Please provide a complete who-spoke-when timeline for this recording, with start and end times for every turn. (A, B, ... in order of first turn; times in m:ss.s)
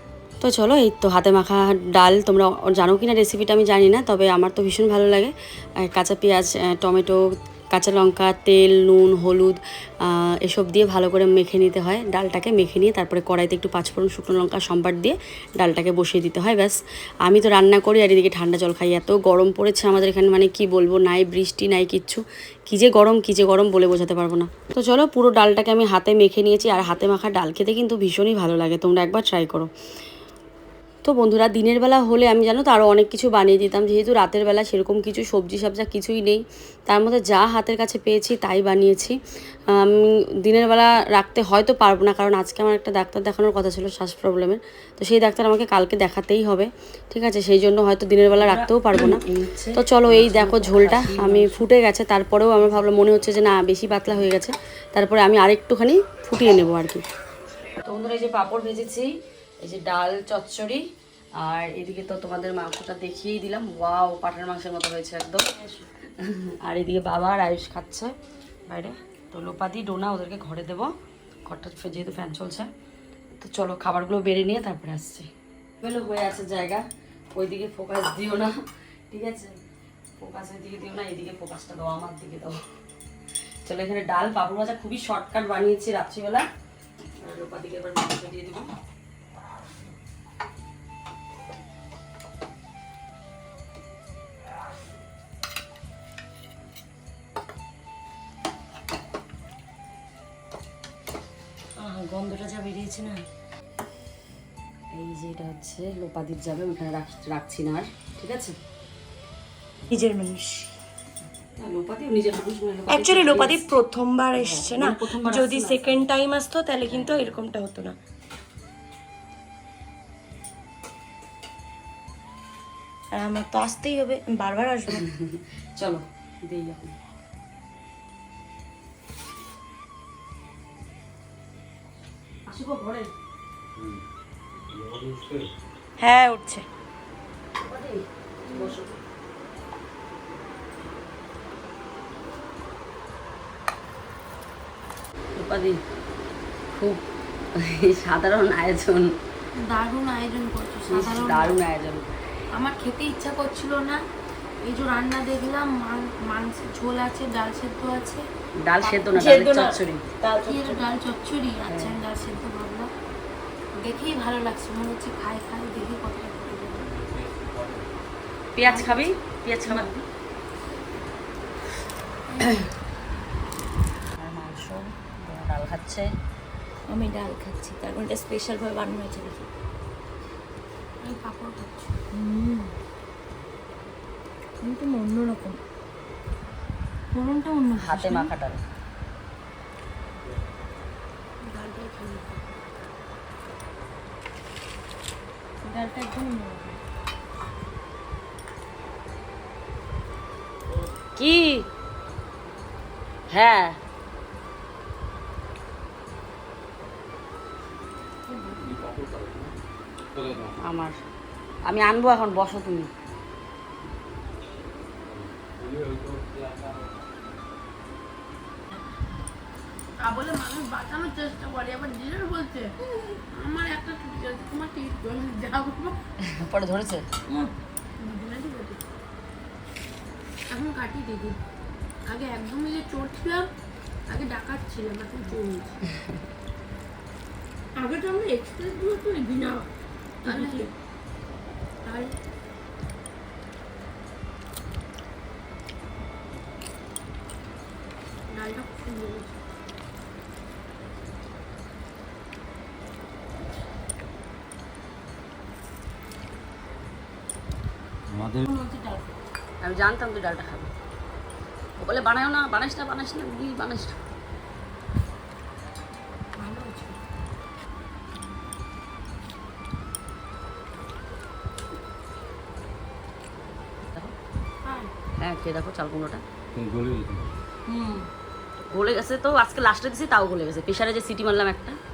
0:00.4-0:29.7 A
0:31.0-0:39.2 A
0:39.7-0:57.0 A
0:57.8-0:59.1 A
0:59.6-1:00.8 A
1:01.4-1:05.5 A
1:06.2-1:08.1 A
1:08.7-1:10.9 A
1:11.4-1:12.7 A
1:13.4-1:15.3 A
1:15.8-1:18.5 A
1:19.1-1:19.6 A
1:20.2-1:22.6 A
1:23.6-1:26.4 A
1:27.2-1:28.7 A
1:41.8-1:43.2 B
1:44.9-1:48.6 A
1:49.9-1:50.7 B
1:51.5-1:53.7 A
1:52.9-1:58.0 B
1:54.3-1:56.0 A
1:56.8-1:57.4 A
2:03.1-2:05.0 B
2:04.9-2:06.9 A
2:12.4-2:13.1 A
2:13.8-2:14.0 C
2:14.7-2:15.5 C
2:16.0-2:16.6 B
2:17.6-2:18.9 A
2:18.5-2:18.8 D
2:25.3-2:25.8 A
2:26.7-2:27.0 A
2:27.6-2:29.1 A
2:29.7-2:31.6 D
2:30.9-2:32.1 A
2:32.5-2:34.0 D
2:34.6-2:38.2 D
2:38.6-2:40.0 A
2:39.1-2:40.8 B
2:40.4-2:42.9 D
2:41.7-2:42.0 A
2:43.7-2:46.9 D
2:46.8-2:47.9 C
2:48.6-2:50.0 A
2:48.6-2:49.1 D
2:49.6-2:49.9 D
2:52.3-2:52.6 D
2:54.2-2:56.1 A
2:56.9-2:59.4 B
3:01.0-3:02.0 D
3:02.1-3:02.7 B
3:04.6-3:05.6 B
3:07.1-3:08.3 B
3:07.7-3:08.6 A
3:11.4-3:12.4 D
3:15.7-3:16.8 B
3:21.2-3:21.6 A
3:23.3-3:23.8 A
3:28.5-3:29.5 C
3:30.1-3:30.6 C
3:30.6-3:31.0 A
3:31.6-3:32.9 A
3:35.0-3:37.1 C
3:40.0-3:46.0 D
3:46.2-3:47.0 A
3:48.0-3:48.8 D
3:50.5-3:51.4 D
3:52.1-3:53.5 D
3:54.1-3:55.8 D
3:57.8-3:59.7 D
4:00.2-4:00.7 D
4:00.3-4:00.6 B
4:01.8-4:02.2 D
4:08.3-4:09.4 D
4:18.1-4:18.5 C
4:18.5-4:19.1 D
4:19.6-4:20.7 A
4:21.8-4:24.0 A
4:26.4-4:27.0 D
4:34.6-4:34.9 D
4:35.2-4:36.2 A
4:36.5-4:37.4 C
4:37.7-4:38.1 B
4:38.7-4:41.8 A